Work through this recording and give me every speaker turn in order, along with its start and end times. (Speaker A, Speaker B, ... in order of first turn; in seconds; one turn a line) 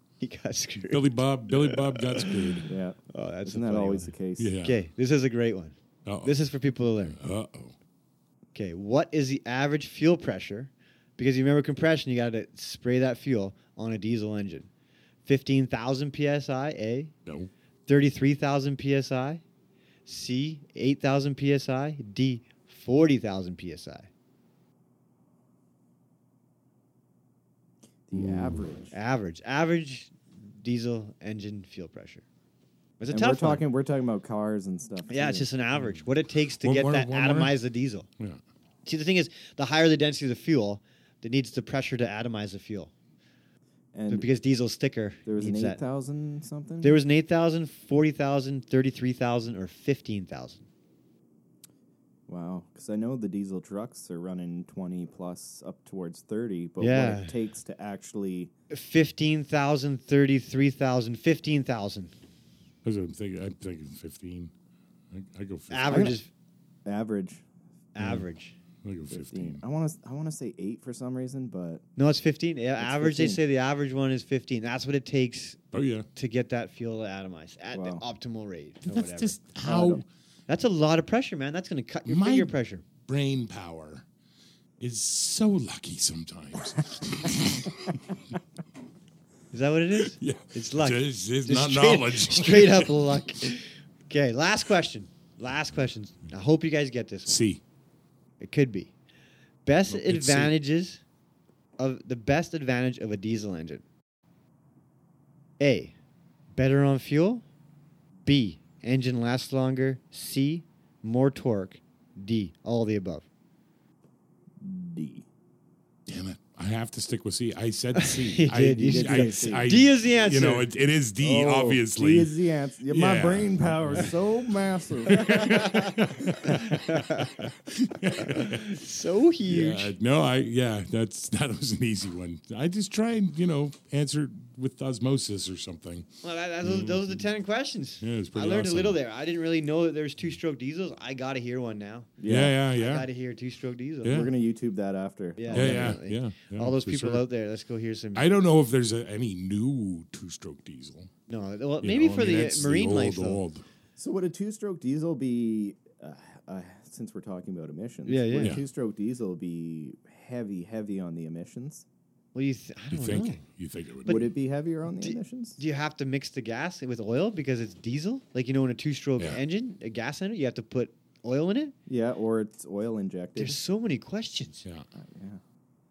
Speaker A: 0.2-7.2
Speaker B: 0.9-2.7
Speaker C: 2.6-4.5
Speaker B: 4.4-4.8
Speaker B: 6.0-6.3
Speaker B: 7.0-7.7
Speaker A: 8.5-14.7
Speaker A: 15.2-17.1
Speaker B: 17.2-17.5
Speaker A: 17.9-19.4
Speaker A: 20.1-24.1
Speaker C: 28.1-28.9
Speaker A: 28.9-32.2
Speaker A: 33.0-33.6
Speaker C: 33.1-35.5
Speaker A: 35.1-38.1
Speaker B: 36.6-37.5
Speaker A: 38.8-42.9
Speaker C: 43.9-44.3
Speaker A: 44.1-45.8
Speaker C: 45.2-47.0
Speaker A: 46.8-50.7
Speaker C: 52.3-58.5
Speaker A: 56.8-57.3
Speaker A: 58.7-62.1
Speaker B: 62.8-64.5
Speaker B: 65.1-66.2
Speaker A: 65.7-66.3
Speaker C: 65.9-66.2
Speaker C: 66.8-67.4
Speaker A: 67.9-68.5
Speaker B: 68.0-68.2
Speaker B: 68.8-69.6
Speaker C: 69.1-71.8
Speaker A: 72.0-75.6
Speaker C: 72.8-73.4
Speaker B: 75.7-76.0
Speaker A: 76.1-79.4
Speaker C: 77.7-78.0
Speaker B: 78.8-80.0
Speaker C: 79.6-80.0
Speaker A: 80.5-82.8
Speaker B: 82.0-84.0
Speaker B: 84.8-88.1
Speaker A: 89.5-97.4
Speaker B: 90.0-93.2
Speaker B: 97.3-97.6
Speaker A: 98.4-98.9
Speaker A: 99.6-101.0
Speaker B: 99.9-100.5
Speaker A: 101.8-103.8
Speaker A: 105.6-105.9
Speaker A: 106.5-107.4
Speaker A: 108.2-113.2
Speaker C: 114.6-115.3
Speaker B: 116.1-122.3
Speaker A: 118.0-120.7
Speaker C: 118.8-119.8
Speaker C: 121.2-125.7
Speaker B: 122.9-124.2
Speaker B: 125.1-128.8
Speaker A: 125.2-127.4
Speaker A: 128.1-129.9
Speaker B: 129.4-136.1
Speaker A: 136.2-142.2
Speaker B: 136.6-137.2
Speaker B: 138.0-139.0
Speaker C: 142.2-142.6
Speaker B: 142.3-143.1
Speaker A: 142.7-144.3
Speaker B: 144.0-144.3
Speaker C: 144.0-146.0
Speaker A: 145.4-148.3
Speaker B: 145.5-147.2
Speaker B: 148.1-151.1
Speaker A: 151.3-153.4
Speaker B: 151.8-153.6
Speaker C: 154.0-161.8
Speaker A: 158.1-158.5
Speaker A: 162.3-163.4
Speaker B: 162.9-164.2
Speaker A: 164.0-164.3
Speaker C: 164.1-165.6
Speaker A: 165.0-171.7
Speaker C: 171.9-173.6
Speaker A: 173.4-174.6
Speaker C: 174.9-175.4